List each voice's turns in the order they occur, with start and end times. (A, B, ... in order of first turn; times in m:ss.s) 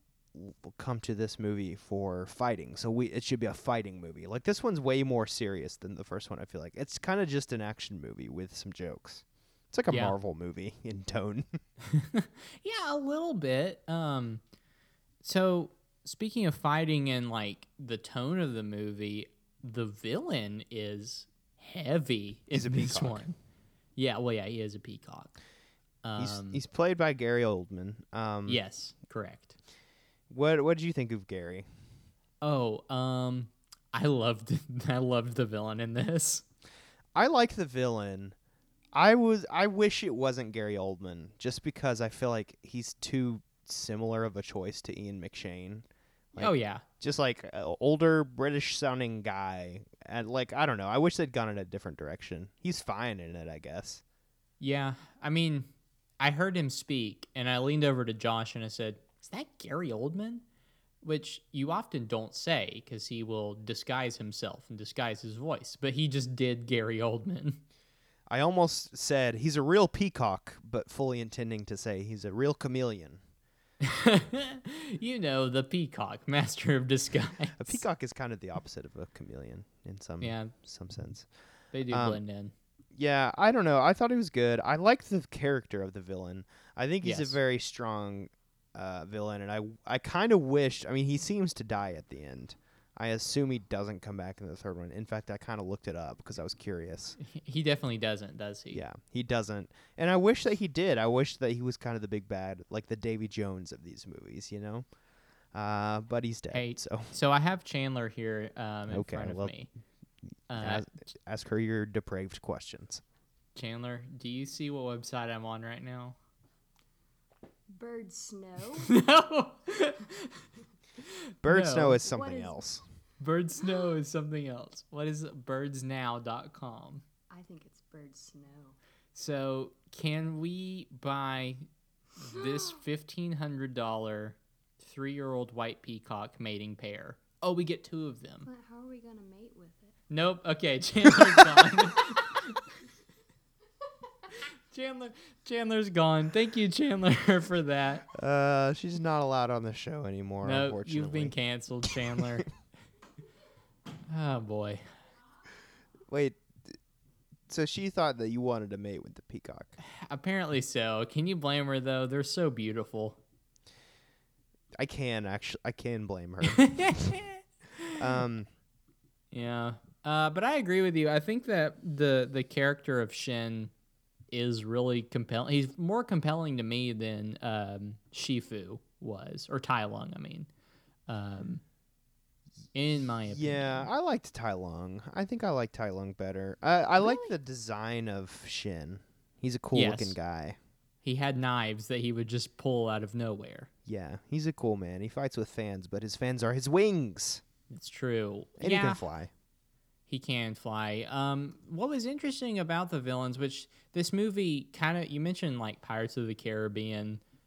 0:00.3-0:11.6 A
0:09.9-0:10.2 B
0:11.9-0:14.4 B
0:15.2-0:23.4 B
0:22.5-0:23.3 A
0:24.0-0:25.4 B
0:26.0-0:26.6 B
0:26.2-0:28.6 A
0:28.5-0:29.5 B
0:30.3-0:31.7 A
0:32.4-0:36.4 B
0:37.1-0:38.4 A
0:38.9-0:54.0 A
0:46.4-0:46.8 B
0:54.6-1:00.4 B
1:01.0-1:07.6 B
1:08.3-1:13.2 A
1:13.8-1:17.8 B
1:17.6-1:21.3 A
1:20.2-1:20.5 B
1:21.7-1:22.5 B
1:21.9-1:22.2 A
1:22.9-1:37.2 A
1:27.0-1:27.4 B
1:37.2-1:38.8 B
1:38.7-1:44.9 A
1:45.5-1:47.1 A
1:46.5-1:49.7 B
1:48.9-1:49.6 A
1:50.5-1:50.8 B
1:50.6-1:53.0 A
1:53.6-1:56.2 B
1:57.7-1:58.9 C
1:58.8-2:00.4 B
2:01.0-2:02.0 B
2:01.4-2:02.8 A
2:02.0-2:02.5 C
2:03.2-2:07.0 B
2:07.3-2:08.8 C
2:09.1-2:11.6 B
2:12.2-2:18.4 B
2:18.4-2:20.0 C
2:20.1-2:22.6 B
2:24.7-2:28.0 B
2:28.1-2:31.3 A
2:30.4-2:32.5 B
2:34.1-2:34.9 B
2:36.1-2:36.4 A
2:37.5-2:39.8 A
2:39.8-2:43.2 B
2:44.8-2:47.2 A
2:46.5-2:48.0 B
2:47.9-2:48.5 A
2:49.3-2:53.7 B
2:54.3-3:00.5 B
3:01.1-3:01.6 B
3:02.7-3:03.9 B
3:03.3-3:10.6 A
3:09.7-3:10.2 B
3:11.0-3:13.7 B
3:13.9-3:17.4 A
3:17.7-3:19.0 B
3:18.6-3:19.3 A
3:20.1-3:27.2 B